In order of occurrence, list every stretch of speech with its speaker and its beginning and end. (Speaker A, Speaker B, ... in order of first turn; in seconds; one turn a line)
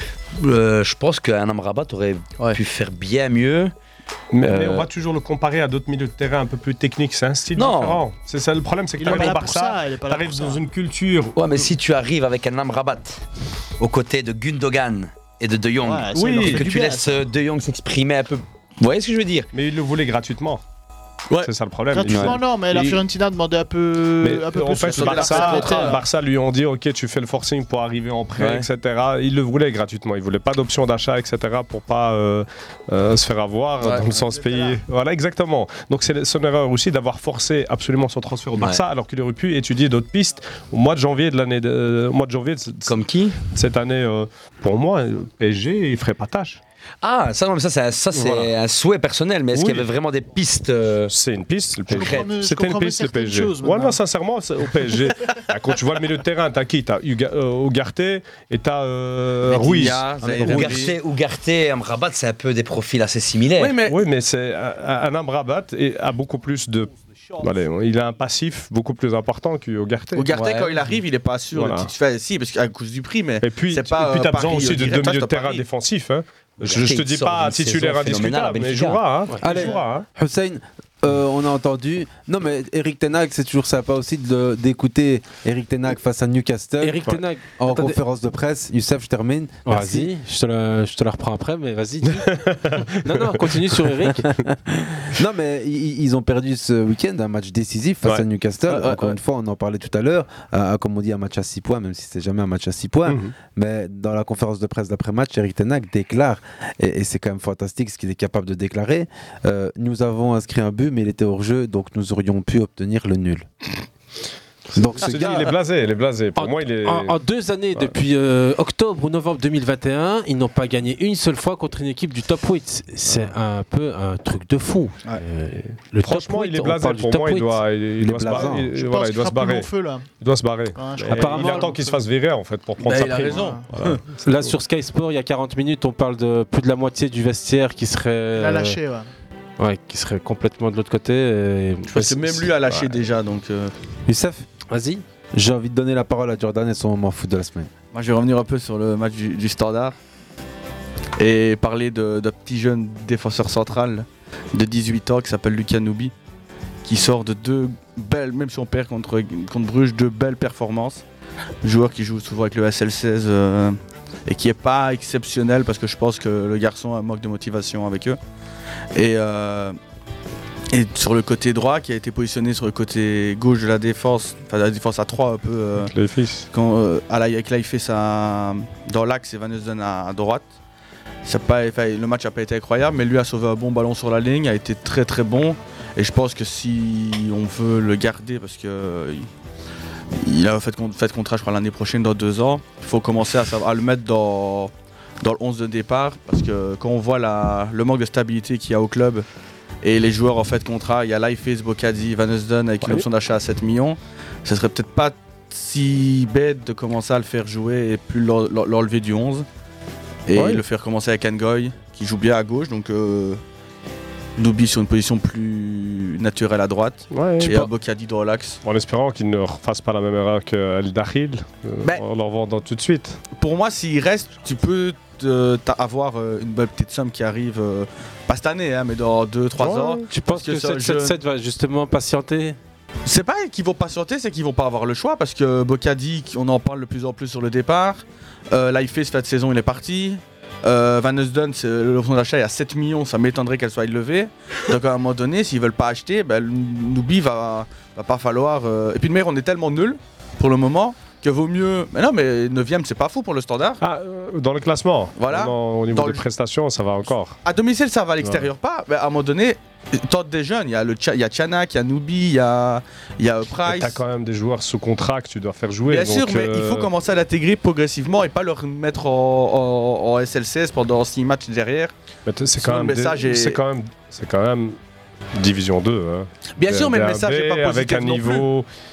Speaker A: 0.3-3.7
Speaker B: 4.3-11.4
Speaker A: 4.4-4.9
Speaker A: 7.5-8.0
Speaker C: 9.0-10.6
Speaker A: 9.1-9.4
Speaker A: 11.3-13.2
Speaker A: 13.8-19.5
Speaker C: 15.8-17.3
Speaker B: 16.1-16.7
Speaker B: 19.5-20.6
Speaker B: 21.4-22.4
Speaker C: 21.9-26.0
Speaker D: 22.1-23.0
Speaker B: 24.2-46.6
Speaker D: 24.9-26.0
Speaker D: 28.4-28.7
Speaker D: 33.8-34.0
Speaker C: 34.1-34.8
Speaker A: 38.6-38.8
Speaker A: 42.9-43.4
Speaker A: 47.0-51.1
Speaker B: 48.2-48.5
Speaker B: 49.5-49.9
Speaker B: 51.1-60.0
Speaker C: 51.9-54.0
Speaker A: 51.9-52.3
Speaker D: 59.5-61.0
Speaker E: 60.2-60.7
Speaker A: 60.4-63.8
Speaker D: 63.6-64.0
Speaker B: 63.8-70.3
Speaker D: 70.1-75.6
Speaker A: 70.3-70.8
Speaker B: 71.5-71.9
Speaker B: 73.4-80.0
Speaker A: 76.6-79.0
Speaker E: 79.4-90.1
Speaker F: 86.8-88.0
Speaker F: 89.7-94.4
Speaker B: 92.3-92.9
Speaker E: 95.1-113.5
Speaker D: 98.7-99.1
Speaker B: 103.1-103.3
Speaker E: 114.7-115.5
Speaker B: 115.0-117.2
Speaker F: 116.4-127.6
Speaker B: 126.0-134.5
Speaker E: 128.0-128.7
Speaker C: 128.7-130.1
Speaker C: 130.7-132.0
Speaker F: 131.1-131.7
Speaker D: 132.8-134.0
Speaker C: 133.3-133.6
Speaker F: 134.2-138.8
Speaker C: 138.3-139.1
Speaker F: 139.6-142.5
Speaker D: 141.9-143.7
Speaker E: 144.1-144.4
Speaker F: 144.7-145.0
Speaker E: 145.3-147.7
Speaker D: 147.9-149.9
Speaker D: 151.2-156.1
Speaker D: 156.8-161.0
Speaker D: 161.6-168.2
Speaker D: 168.9-169.8
Speaker D: 170.7-175.9
Speaker B: 175.8-176.5
Speaker D: 176.5-180.4
Speaker D: 181.2-189.3
Speaker D: 190.2-199.2
Speaker D: 199.8-209.4
Speaker D: 210.3-213.4
Speaker B: 210.3-210.6
Speaker D: 214.4-218.6
Speaker B: 217.1-217.7
Speaker B: 218.6-223.2
Speaker D: 223.4-231.2
Speaker B: 229.6-230.0
Speaker F: 230.1-232.6
Speaker D: 233.0-253.8
Speaker B: 253.8-257.4
Speaker D: 255.2-256.2
Speaker D: 257.4-264.0
Speaker B: 263.6-266.9
Speaker D: 265.9-271.9
Speaker B: 272.2-274.8
Speaker D: 272.6-273.6
Speaker B: 275.3-278.7
Speaker D: 276.6-278.5